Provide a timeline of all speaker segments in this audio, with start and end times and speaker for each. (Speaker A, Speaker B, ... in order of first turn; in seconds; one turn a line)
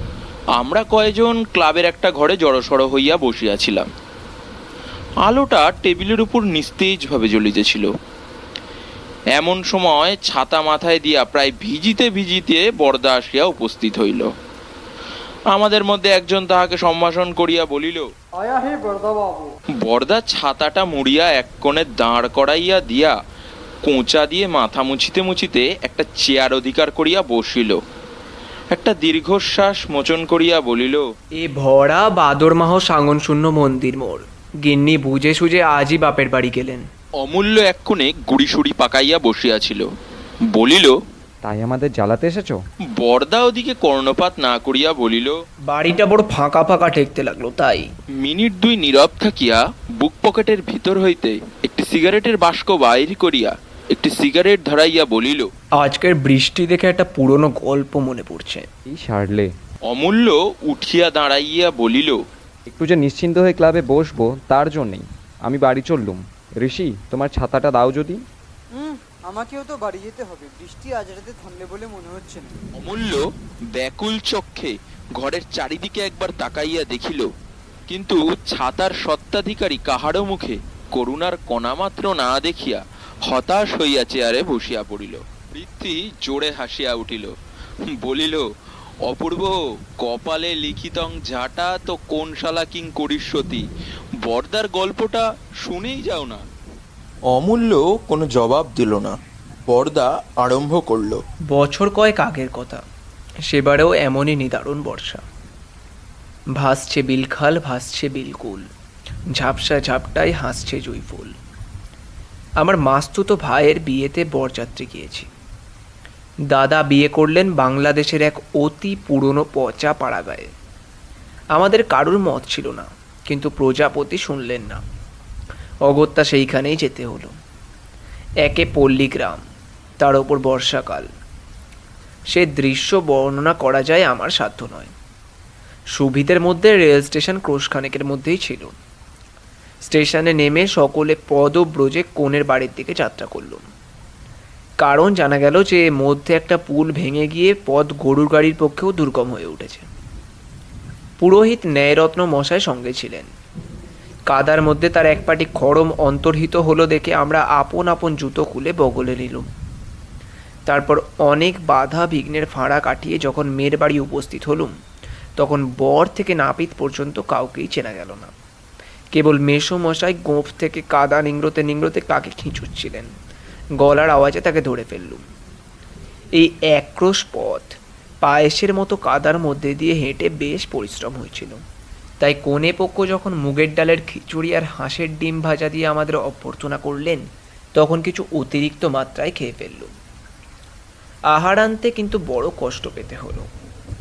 Speaker A: 0.5-3.9
Speaker A: 5.2-7.9
Speaker A: 9.3-14.3
Speaker A: 15.5-18.1
Speaker B: 18.4-19.5
Speaker A: 19.8-23.1
Speaker A: 23.8-27.8
Speaker A: 28.7-31.0
Speaker C: 31.4-36.8
Speaker A: 37.2-39.8
Speaker A: 40.5-40.9
Speaker D: 41.4-42.6
Speaker A: 43.0-45.3
Speaker C: 45.7-47.9
Speaker A: 48.2-55.5
Speaker C: 55.8-58.7
Speaker D: 58.9-59.5
Speaker A: 59.9-62.2
Speaker D: 62.7-68.2
Speaker B: 68.8-72.5
Speaker A: 72.8-73.2
Speaker A: 73.7-77.3
Speaker A: 77.9-87.3
Speaker A: 88.0-88.4
Speaker A: 89.0-93.6
Speaker A: 94.2-96.4
Speaker A: 97.3-99.1
Speaker A: 99.7-101.2
Speaker C: 101.5-102.8
Speaker C: 103.5-105.2
Speaker C: 106.6-108.7
Speaker C: 109.3-111.3
Speaker C: 112.6-115.3
Speaker C: 116.5-120.5
Speaker C: 121.5-124.8
Speaker C: 125.9-127.3
Speaker C: 128.4-129.4
Speaker C: 130.0-131.1
Speaker C: 132.3-134.9
Speaker C: 135.9-138.8
Speaker C: 139.8-143.6
Speaker C: 144.8-149.9
Speaker C: 151.2-153.3
Speaker C: 154.3-159.5
Speaker C: 160.7-164.7
Speaker C: 165.4-168.3
Speaker C: 169.1-173.1
Speaker C: 173.8-175.2
Speaker C: 176.4-181.6
Speaker C: 182.2-187.2
Speaker C: 187.7-189.9
Speaker C: 191.3-193.5